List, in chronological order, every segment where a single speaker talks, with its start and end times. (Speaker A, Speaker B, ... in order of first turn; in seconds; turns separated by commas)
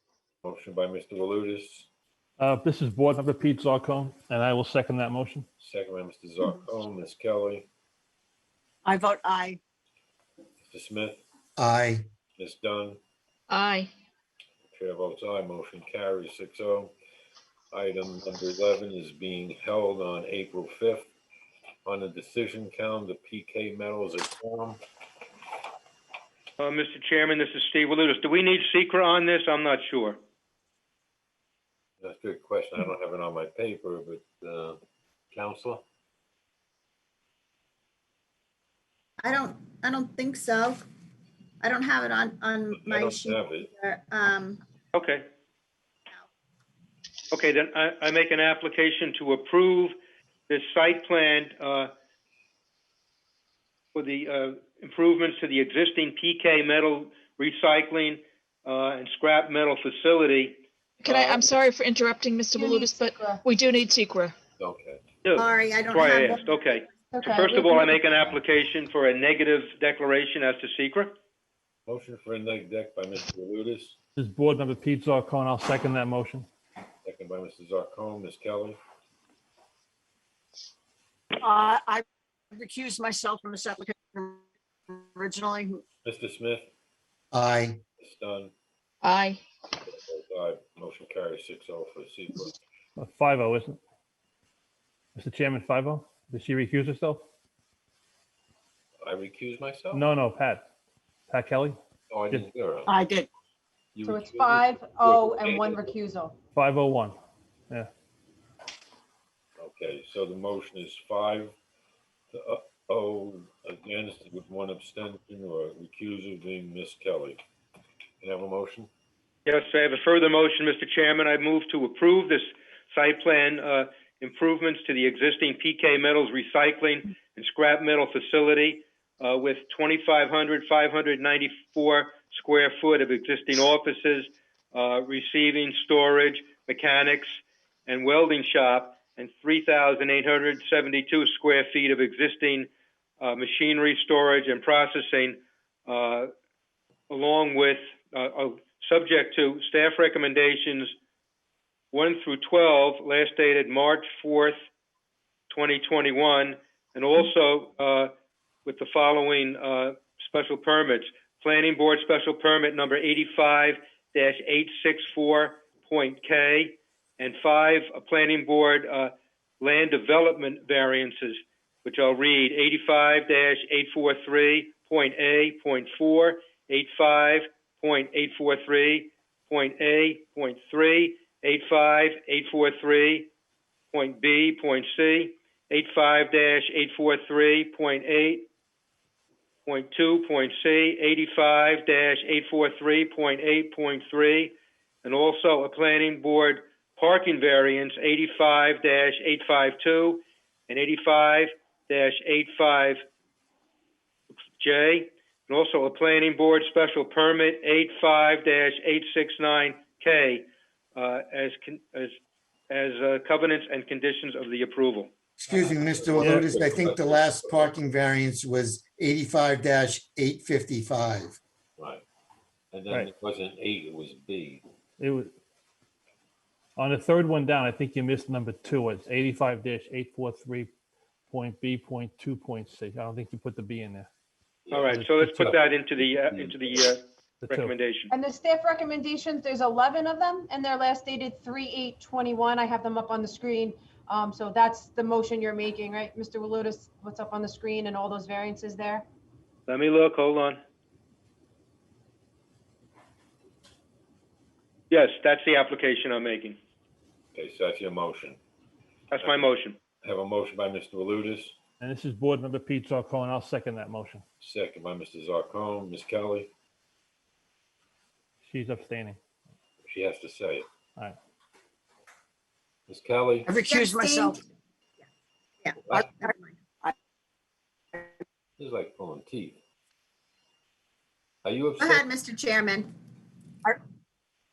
Speaker A: 0.4-1.9, Speaker B: 2.4-5.5, Speaker A: 5.6-7.7, Speaker C: 8.8-9.6, Speaker A: 10.6-11.2, Speaker D: 11.6-12.1, Speaker A: 12.4-13.0, Speaker E: 13.5-13.8, Speaker A: 14.7-16.9, Speaker A: 17.7-21.1, Speaker A: 21.9-24.8, Speaker F: 26.6-30.2, Speaker A: 32.0-34.8, Speaker A: 35.3-35.8, Speaker G: 39.2-40.8, Speaker G: 41.6-43.4, Speaker A: 42.6-44.4, Speaker G: 44.0-44.4, Speaker F: 44.9-45.3, Speaker F: 47.3-50.0, Speaker F: 50.5-51.9, Speaker F: 53.9-61.5, Speaker E: 61.0-64.3, Speaker H: 62.5-63.5, Speaker A: 64.6-66.5, Speaker F: 65.2-71.2, Speaker G: 65.6-66.3, Speaker H: 67.1-68.1, Speaker A: 71.9-74.0, Speaker B: 74.2-76.5, Speaker A: 77.0-78.8, Speaker C: 81.4-85.8, Speaker A: 86.0-86.7, Speaker D: 87.3-87.8, Speaker A: 88.0-88.5, Speaker E: 89.0-89.4, Speaker A: 89.9-92.5, Speaker B: 93.0-93.8, Speaker B: 95.2-97.2, Speaker A: 99.0-100.1, Speaker B: 99.9-100.6, Speaker B: 101.3-101.8, Speaker A: 102.1-102.9, Speaker C: 102.9-103.3, Speaker A: 104.0-106.0, Speaker H: 104.0-106.4, Speaker B: 106.5-107.2, Speaker A: 109.6-111.5, Speaker A: 112.3-117.4, Speaker A: 118.2-118.9, Speaker F: 119.5-142.7, Speaker F: 143.2-146.3, Speaker F: 147.1-150.9, Speaker F: 151.9-154.6, Speaker F: 155.5-158.1, Speaker F: 158.7-183.3, Speaker F: 183.9-188.5, Speaker F: 189.7-203.0, Speaker F: 204.6-212.2, Speaker F: 212.7-215.1, Speaker D: 215.4-221.4, Speaker A: 215.8-217.7, Speaker B: 216.2-216.5, Speaker A: 221.8-222.0, Speaker A: 222.7-224.6, Speaker B: 225.0-225.3, Speaker B: 226.8-230.7, Speaker B: 231.3-234.1, Speaker A: 234.7-236.9, Speaker F: 234.7-238.1, Speaker B: 234.9-235.5, Speaker B: 237.4-237.7, Speaker H: 238.1-249.1, Speaker F: 249.7-250.6, Speaker F: 254.9-256.6, Speaker A: 257.4-258.4, Speaker F: 259.1-259.8, Speaker A: 260.0-261.6, Speaker B: 261.8-264.2, Speaker A: 264.4-266.5, Speaker B: 268.4-269.2, Speaker A: 269.9-270.7, Speaker A: 272.9-274.4, Speaker C: 273.5-274.4, Speaker A: 275.6-276.3, Speaker C: 275.9-276.9, Speaker A: 278.6-279.6, Speaker A: 281.4-282.9